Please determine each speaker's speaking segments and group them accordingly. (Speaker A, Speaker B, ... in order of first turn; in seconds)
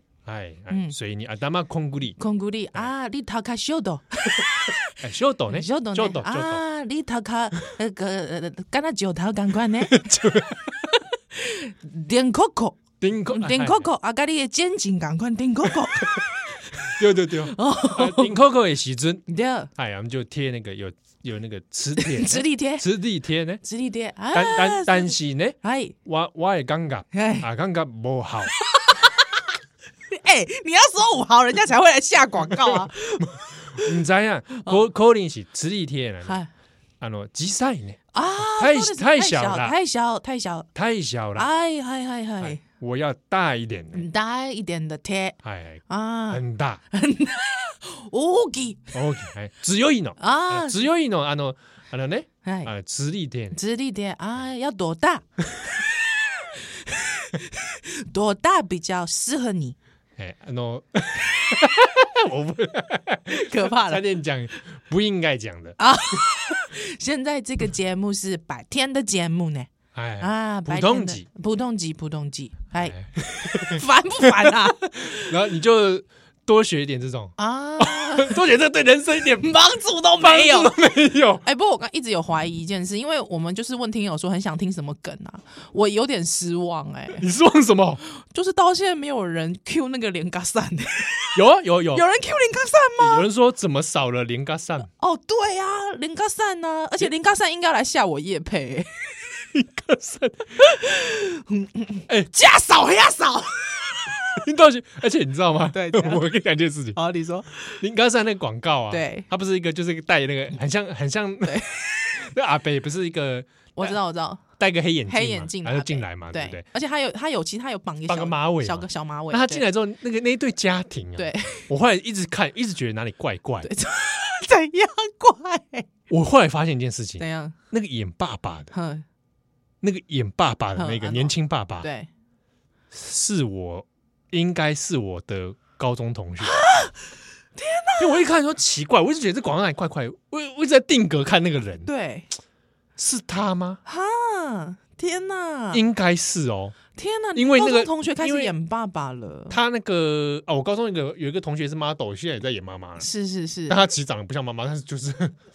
Speaker A: 0.2-2.2, 5.0-6.6, 9.8-10.8, 13.0-13.9, 16.8-19.2, 19.7-23.6, 24.3-28.5, 32.6-36.4, 37.0-39.7, 40.7-41.5, 42.4-44.0, 45.4-46.8, 48.9-53.6, 60.2-65.8, 69.9-71.2, 72.8-79.5, 80.2-81.4, 87.2-88.0, 91.3-92.0, 93.0-94.9, 99.5-100.6, 104.3-107.0, 107.8-114.0, 114.6-116.6, 118.1-123.7, 126.1-128.7, 129.8-131.9, 132.9-136.6, 138.0-141.9, 143.0-143.8, 145.7-146.8, 147.3-148.5, 149.5-153.1, 153.7-155.3
Speaker B: 0.7-0.9, 2.2-4.9, 5.5-10.1, 10.9-16.9, 17.4-18.4, 19.3-19.7, 22.0-22.8, 23.6-25.9, 27.1-27.4, 28.6-29.5, 30.1-33.9, 34.5-34.8, 38.1-40.7, 41.4-42.6, 43.9-45.4, 45.9-48.9, 50.2-50.9, 52.4-52.7, 53.5-55.9, 56.4-59.8, 63.3-64.0, 65.8-69.7, 70.2-75.3, 77.4-78.4, 79.3-80.8, 81.4-87.2, 88.1-91.4, 91.9-93.2, 94.9-99.1, 100.6-104.4, 105.7-106.2, 106.9-107.8, 108.9-109.3, 111.4-112.2, 113.8-114.4, 115.1-119.6, 121.2-121.7, 123.6-125.9, 127.2-127.5, 128.7-129.0, 130.8-132.1, 136.4-138.3, 141.8-142.3, 143.8-145.8, 146.9-149.6, 153.0-153.8